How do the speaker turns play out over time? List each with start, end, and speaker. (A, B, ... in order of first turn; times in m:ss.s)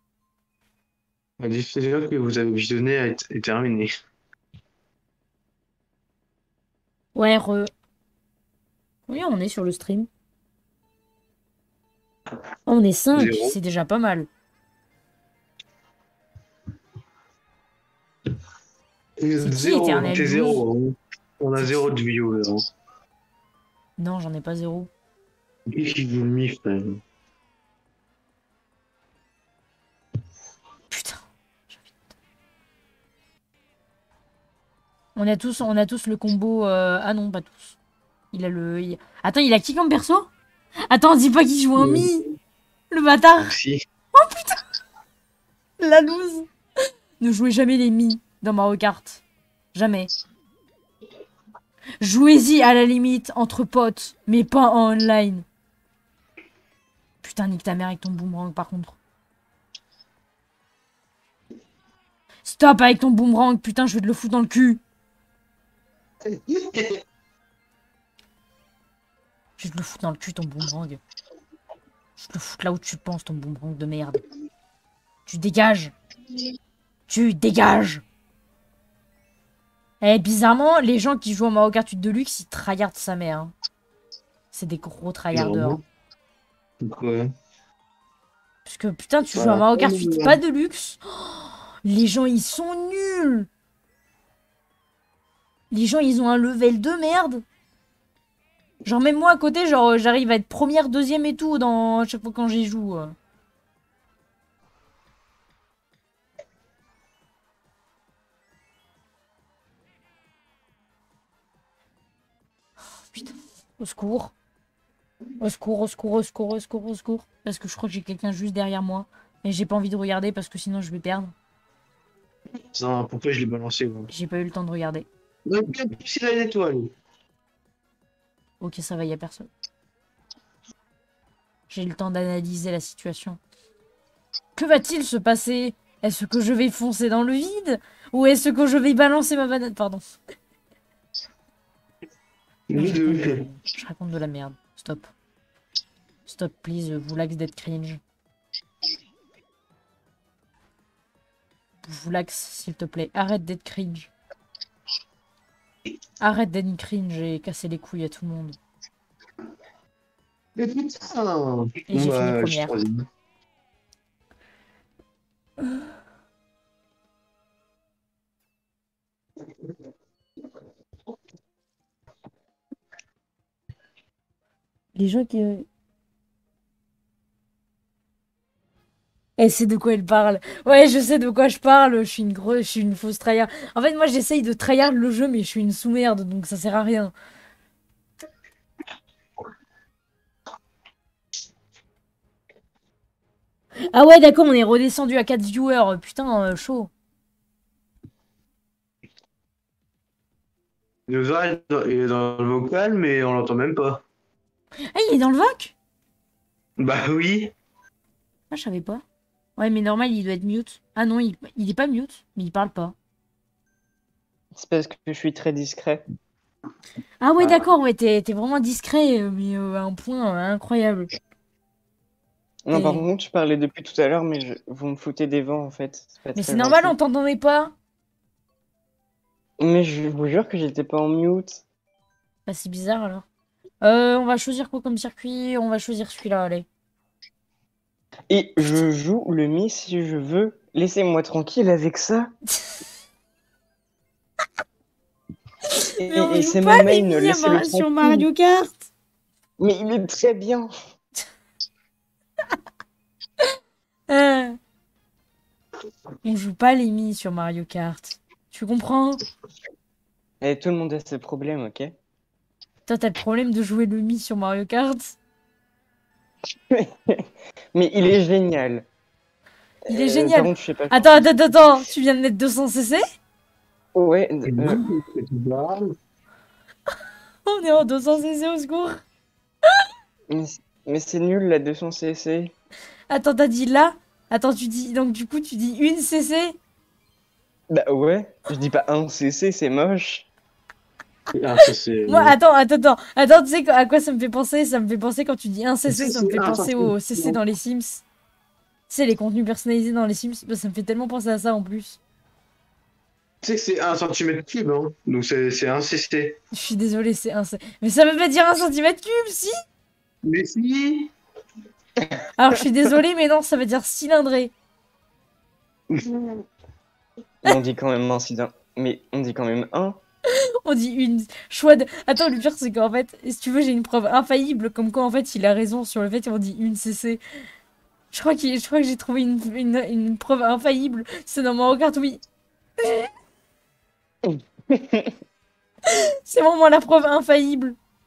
0:01.4-0:03.9 A
0:07.2-0:07.7 B
0:09.1-0:10.1 B
0:12.7-0:14.3 B
0:13.1-0:13.5 A
0:19.2-0:22.6 A
0:19.4-0:20.6 B
0:21.6-0:22.0 B
0:24.0-0:24.9 B
0:25.7-0:27.0 A
0:30.9-0:31.9 B
0:35.2-0:37.8 B
0:38.3-0:40.3 B
0:40.9-0:42.3 B
0:41.8-0:42.1 A
0:42.9-0:43.5 B
0:43.4-0:43.8 A
0:44.2-0:44.6 B
0:45.8-0:46.5 B
0:47.2-0:49.2 B
0:49.7-0:50.1 B
0:52.0-0:55.5 B
0:57.2-0:59.0 B
1:02.4-1:04.8 B
1:06.2-1:07.0 A
1:09.6-1:11.0 B
1:12.2-1:14.2 B
1:15.3-1:15.9 B
1:17.1-1:18.0 B
1:20.0-1:23.5 B
1:24.5-1:25.8 B
1:25.3-1:25.8 A
1:26.8-1:27.3 A
1:28.6-1:33.5 B
1:29.3-1:30.4 A
1:35.7-1:37.4 B
1:38.8-1:43.2 B
1:53.1-1:54.3 B
1:55.4-2:01.3 B
2:02.7-2:04.1 A
2:04.1-2:05.1 B
2:05.5-2:06.9 A
2:08.6-2:09.5 B
2:11.7-2:13.4 B
2:14.6-2:20.0 B
2:22.7-2:23.4 A
2:22.8-2:25.1 B
2:26.3-2:28.0 B
2:31.8-2:34.1 B
2:36.2-2:38.6 B
2:40.6-2:43.0 A
2:41.9-2:42.8 B
2:55.0-2:55.7 B
2:59.4-3:07.1 B
3:13.9-3:16.9 B
3:21.1-3:24.0 A
3:24.9-3:25.8 B
3:26.8-3:27.5 A
3:28.5-3:29.0 B
3:29.6-3:33.0 B
3:34.6-3:36.0 C
3:37.2-3:41.1 B
3:37.4-3:37.7 C
3:42.7-3:47.0 C
3:42.7-3:43.0 B
3:46.4-3:47.7 B
3:49.6-3:51.6 C
3:52.5-3:53.2 B
3:53.8-3:56.7 B
3:58.3-4:02.3 C
4:05.7-4:08.9 B
4:06.0-4:08.3 C
4:09.6-4:10.7 C
4:14.1-4:14.6 B
4:16.2-4:19.2 B
4:20.4-4:22.0 C
4:22.9-4:25.2 B
4:26.7-4:28.9 C
4:29.9-4:31.3 C
4:29.9-4:33.0 B
4:33.9-4:34.8 C
4:34.4-4:35.9 A
4:37.5-4:39.0 B
4:40.3-4:42.5 C
4:43.1-4:46.6 B
4:47.7-4:50.3 C
4:51.3-4:52.3 A
4:52.1-4:58.0 B
4:55.9-4:57.4 A
4:58.9-5:02.0 B
5:03.4-5:06.4 A
5:06.5-5:09.6 B
5:10.2-5:11.1 A
5:12.4-5:14.5 B
5:16.0-5:16.3 A
5:17.4-5:20.0 C
5:20.3-5:27.2 B
5:28.1-5:32.2 B
5:32.8-5:33.1 B
5:34.2-5:35.2 C
5:35.9-5:37.8 B